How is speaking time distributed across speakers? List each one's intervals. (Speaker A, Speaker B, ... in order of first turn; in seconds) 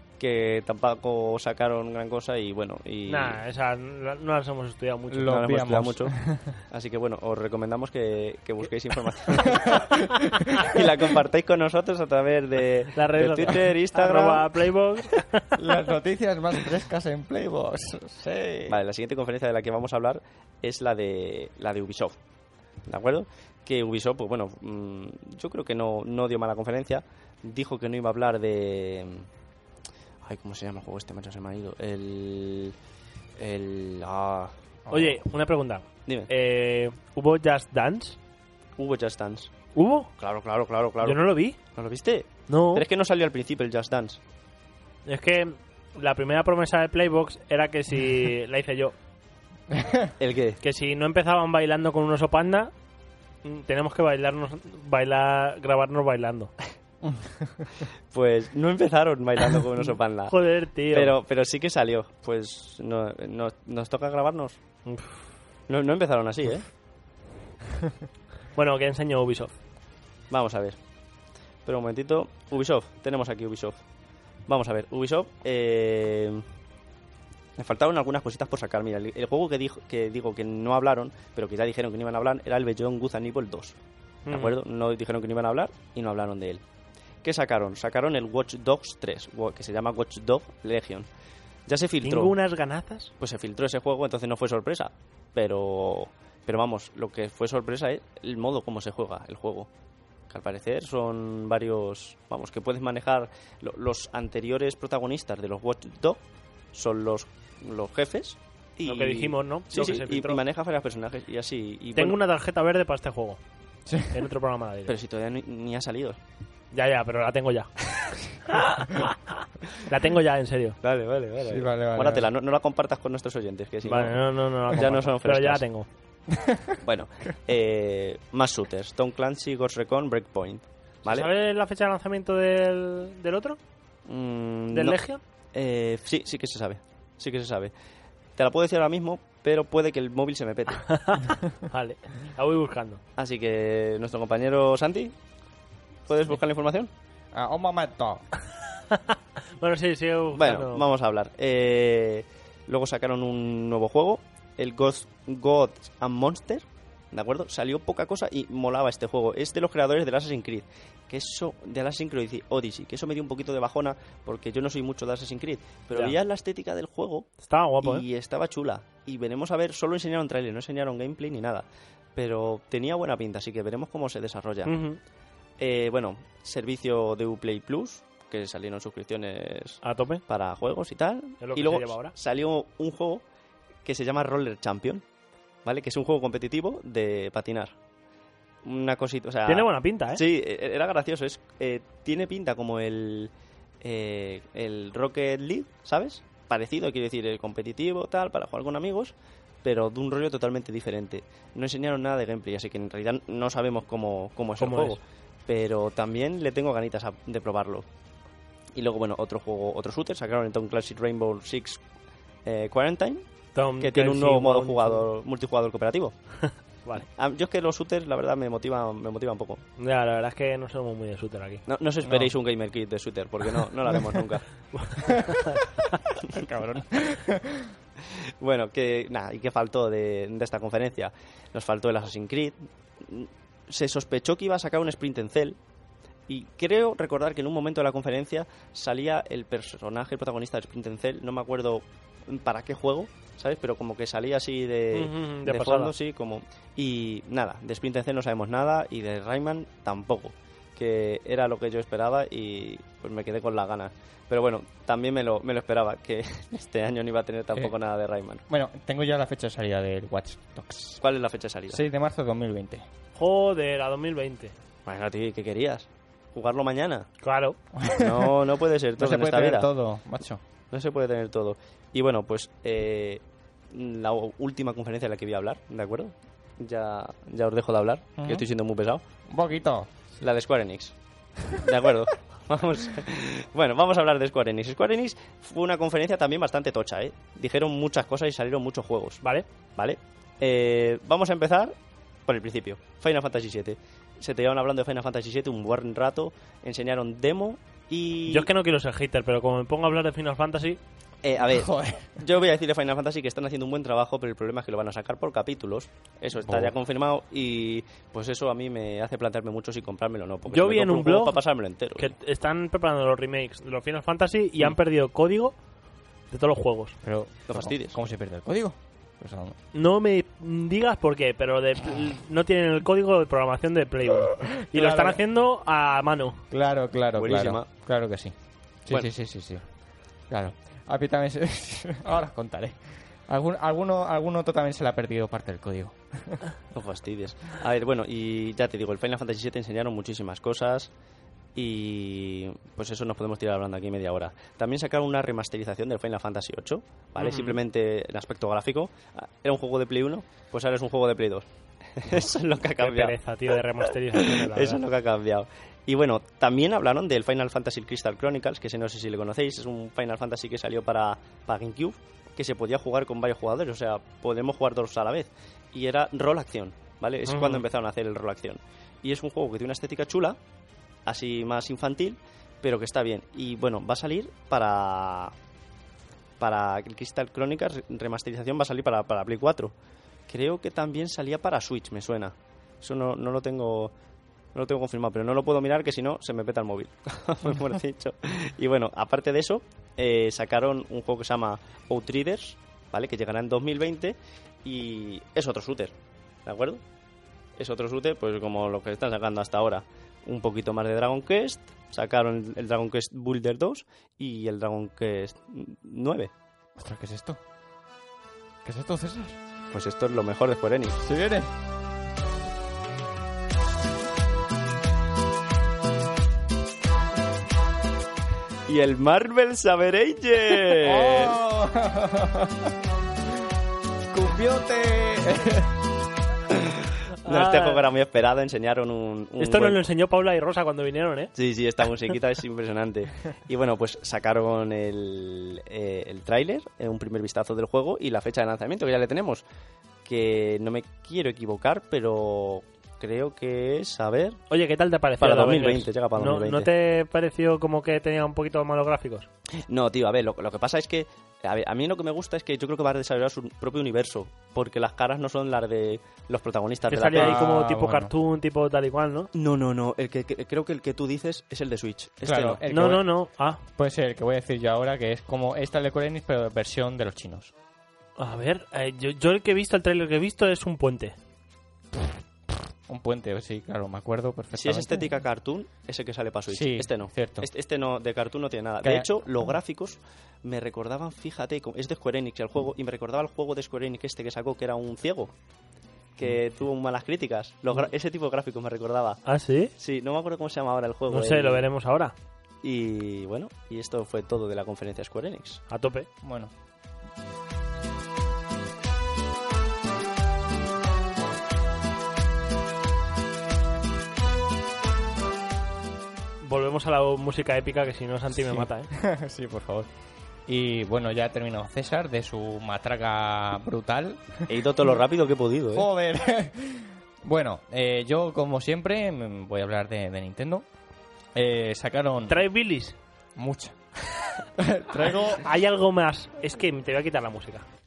Speaker A: 0.2-3.4, 5.2-10.0, 10.5-14.6, 18.7-22.1, 22.9-29.3, 30.2-32.7, 33.4-34.5, 38.8-39.5, 40.2-44.2, 50.2-50.6, 58.1-64.6, 65.7-66.7, 70.3-70.8, 71.7-73.8, 74.5-76.4, 77.6-83.7, 84.3-86.6, 87.2-91.1, 91.7-92.3, 93.2-99.7, 100.3-106.2, 106.7-112.2, 114.9-116.2, 120.8-125.6, 126.8-131.3, 134.1-135.0, 135.5-137.7, 138.3-140.9, 143.2-145.1, 146.1-146.9, 150.3-167.3, 167.8-171.6, 172.2-174.7, 175.6-183.2, 183.8-185.0, 185.6-187.7, 188.6-207.8, 208.8-211.8, 212.4-213.2, 213.8-216.1, 217.1-219.6, 221.7-224.6, 228.4-235.6, 236.3-258.4, 261.0-261.8, 264.9-267.1, 267.9-269.7, 270.7-279.0, 280.2-280.9, 281.5-289.2, 289.8-291.7, 292.3-298.5, 301.2-312.1, 317.5-318.0, 327.2-327.7, 336.7-340.9, 341.5-353.1, 354.1-370.4, 371.1-375.3, 376.4-379.7, 380.3-383.9, 384.5-395.9, 396.4-396.8, 397.6-406.3, 409.7-411.0, 418.7-421.4, 426.5-429.8, 431.3-439.4, 440.0-444.4, 445.2-446.7, 449.6-457.5, 459.3-462.6, 474.5-485.3, 486.2-489.2, 489.8-491.6, 492.6-495.6, 514.5-515.9
Speaker B: 3.1-5.5, 12.9-15.6, 34.9-38.2, 39.7-40.1, 41.0-41.6, 42.5-42.8, 45.0-48.9, 50.6-52.7, 53.4-56.5, 60.3-61.1, 64.8-65.2, 68.5-69.5, 84.2-84.5, 92.0-93.1, 108.8-110.4, 111.9-113.4, 114.1-114.9, 116.7-117.7, 118.5-119.1, 119.8-120.8, 123.8-125.9, 131.0-133.6, 134.7-135.2, 140.8-143.0, 148.9-150.8, 167.4-168.0, 174.6-175.0, 179.8-180.2, 181.4-182.1, 189.5-190.2, 204.6-205.0, 213.6-215.0, 216.4-217.1, 219.8-221.6, 224.7-225.9, 244.9-245.9, 263.1-264.5, 267.2-267.6, 298.3-300.8, 310.5-311.4, 311.9-315.6, 316.3-317.0, 319.7-326.4, 347.2-347.6, 352.8-354.8, 367.3-367.6, 427.2-427.8, 429.4-431.3, 444.5-449.3, 456.9-459.3, 462.7-463.6, 468.2-471.1, 489.2-489.7, 491.1-492.1, 495.7-496.1, 506.4-508.9, 522.3-523.0, 525.2-527.6
Speaker C: 5.1-6.6, 9.5-10.8, 15.6-18.8, 34.9-35.2, 49.7-50.1, 57.0-57.7, 113.8-114.1, 121.4-122.3, 126.3-126.8, 147.3-148.2, 222.0-222.3, 226.3-227.7, 258.5-261.0, 261.7-262.8, 267.7-268.4, 269.0-270.4, 278.2-278.5, 279.3-279.9, 301.4-302.1, 306.3-306.7, 317.0-319.6, 324.4-325.2, 326.5-328.3, 328.9-329.6, 330.3-336.4, 406.8-407.4, 408.6-409.4, 411.0-411.5, 420.8-422.7, 424.1-425.8, 457.1-458.1, 462.2-463.1, 463.7-467.5, 472.9-475.1, 476.5-477.5, 478.8-479.5, 496.2-496.5, 508.3-509.9, 510.5-515.0, 515.7-520.6, 521.3-522.4, 523.4-523.8, 524.6-525.5